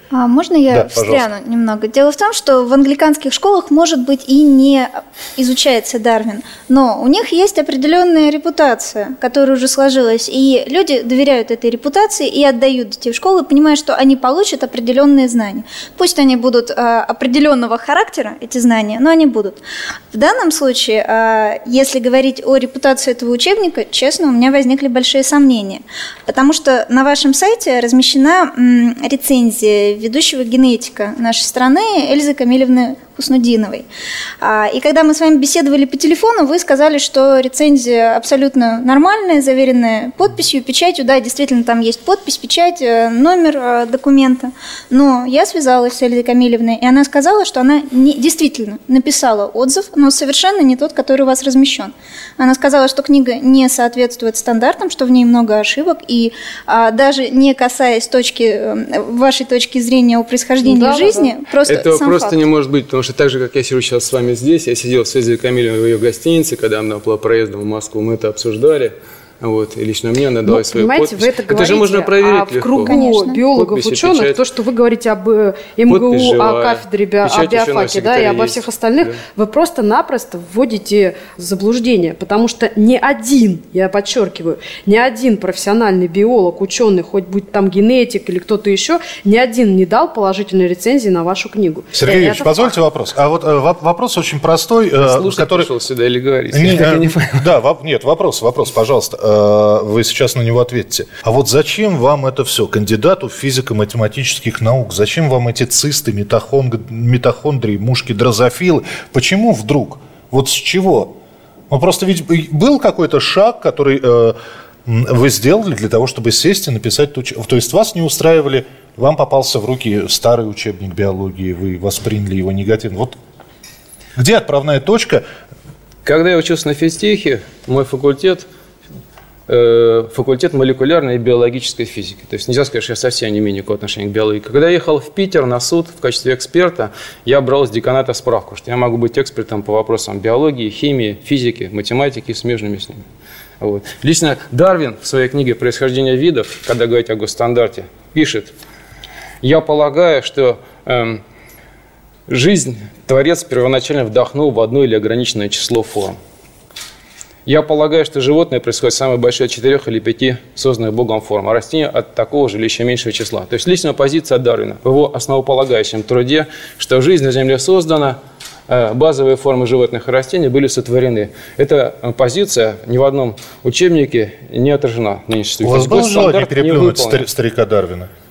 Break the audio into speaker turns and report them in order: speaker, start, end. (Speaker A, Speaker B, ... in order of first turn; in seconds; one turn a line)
Speaker A: 0.1-19.6
Speaker B: 0.7-1.3
Speaker A: 20.1-33.9
Speaker A: 34.4-62.4
Speaker C: 60.6-61.3
Speaker D: 61.6-74.4
Speaker C: 70.5-92.7
Speaker A: 72.8-73.4
Speaker D: 75.9-79.2
Speaker B: 91.9-95.7
Speaker D: 95.0-97.5
Speaker B: 96.5-111.1
Speaker B: 111.7-123.1
Speaker B: 124.2-125.2
Speaker D: 126.0-128.4
Speaker D: 129.5-143.0
Speaker D: 143.6-148.5
Speaker D: 149.4-151.2
Speaker D: 152.3-156.2
Speaker D: 157.4-177.2
Speaker B: 175.6-178.1